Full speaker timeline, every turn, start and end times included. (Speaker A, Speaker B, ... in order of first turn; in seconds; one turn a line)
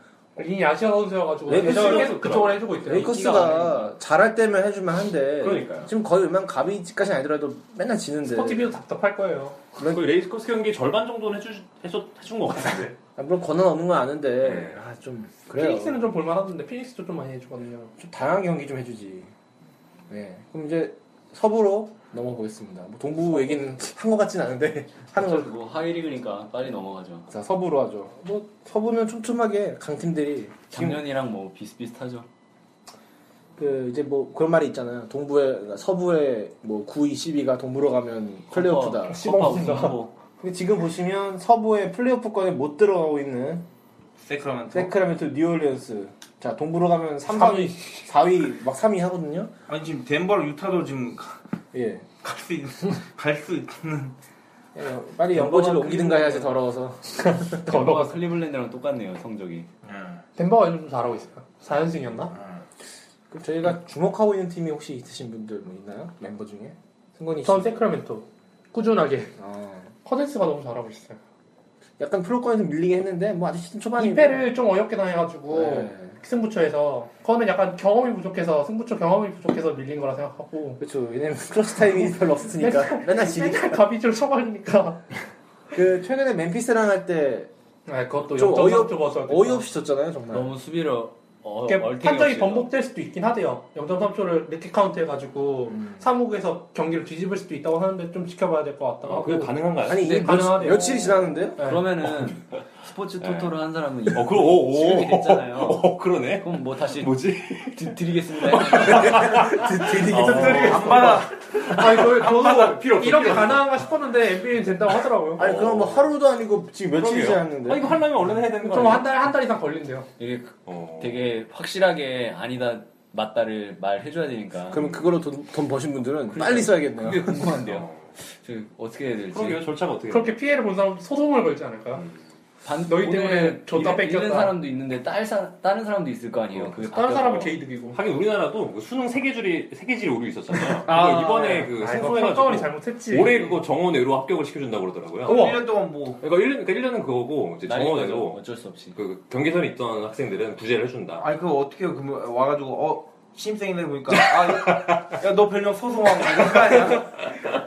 Speaker A: 0.4-3.8
Speaker B: 1.5-2.3
Speaker C: 1.5-2.7
Speaker B: 2.8-8.7
Speaker D: 3.1-3.6
Speaker C: 5.4-5.9
Speaker A: 8.3-9.6
Speaker B: 9.8-10.0
Speaker C: 9.8-13.0
Speaker B: 13.2-16.1
Speaker C: 14.4-14.8
Speaker A: 15.5-17.9
Speaker B: 18.0-19.3
Speaker B: 20.1-25.5
Speaker D: 25.1-27.3
Speaker B: 27.3-31.0
Speaker D: 30.7-32.3
Speaker B: 33.6-43.7
Speaker D: 38.5-40.1
Speaker A: 39.3-39.9
Speaker E: 44.2-44.9
Speaker B: 44.7-49.5
Speaker A: 47.3-48.0
Speaker E: 49.7-51.4
Speaker B: 51.7-52.1
Speaker E: 52.2-54.1
Speaker B: 54.7-57.6
Speaker D: 55.4-56.4
Speaker A: 57.3-58.1
Speaker D: 57.6-59.7
Speaker E: 59.8-60.2
Speaker A: 60.4-62.4
Speaker E: 62.3-62.6
Speaker B: 63.3-67.9
Speaker A: 67.4-69.3
Speaker B: 69.4-69.9
Speaker A: 70.0-71.2
Speaker B: 72.0-74.5
Speaker A: 74.0-80.8
Speaker B: 75.5-76.2
Speaker B: 80.8-83.8
Speaker A: 82.5-85.0
Speaker B: 85.7-87.5
Speaker A: 87.9-89.6
Speaker B: 88.3-90.5
Speaker D: 90.3-92.7
Speaker A: 91.7-101.0
Speaker B: 95.7-96.0
Speaker C: 99.0-100.7
Speaker B: 99.9-101.6
Speaker D: 100.0-101.0
Speaker A: 101.6-101.8
Speaker D: 101.6-107.1
Speaker C: 103.2-103.5
Speaker C: 104.1-108.0
Speaker D: 107.6-109.3
Speaker C: 108.6-113.7
Speaker B: 108.7-111.3
Speaker E: 110.3-111.4
Speaker A: 110.4-115.5
Speaker E: 112.2-113.1
Speaker B: 115.4-118.0
Speaker C: 115.4-116.1
Speaker C: 117.0-119.1
Speaker A: 118.6-120.1
Speaker D: 120.2-124.9
Speaker C: 120.7-121.3
Speaker B: 124.7-127.5
Speaker D: 126.3-129.6
Speaker C: 127.6-128.1
Speaker C: 129.3-130.3
Speaker A: 130.1-132.0
Speaker C: 132.0-132.2
Speaker D: 132.6-137.5
Speaker A: 132.8-134.6
Speaker A: 136.8-138.0
Speaker C: 137.9-145.5
Speaker A: 140.7-143.6
Speaker E: 145.2-146.2
Speaker A: 145.2-145.6
Speaker C: 146.2-148.4
Speaker D: 147.7-149.0
Speaker C: 148.9-151.3
Speaker E: 151.2-157.2
Speaker C: 154.2-155.1
Speaker C: 156.4-156.7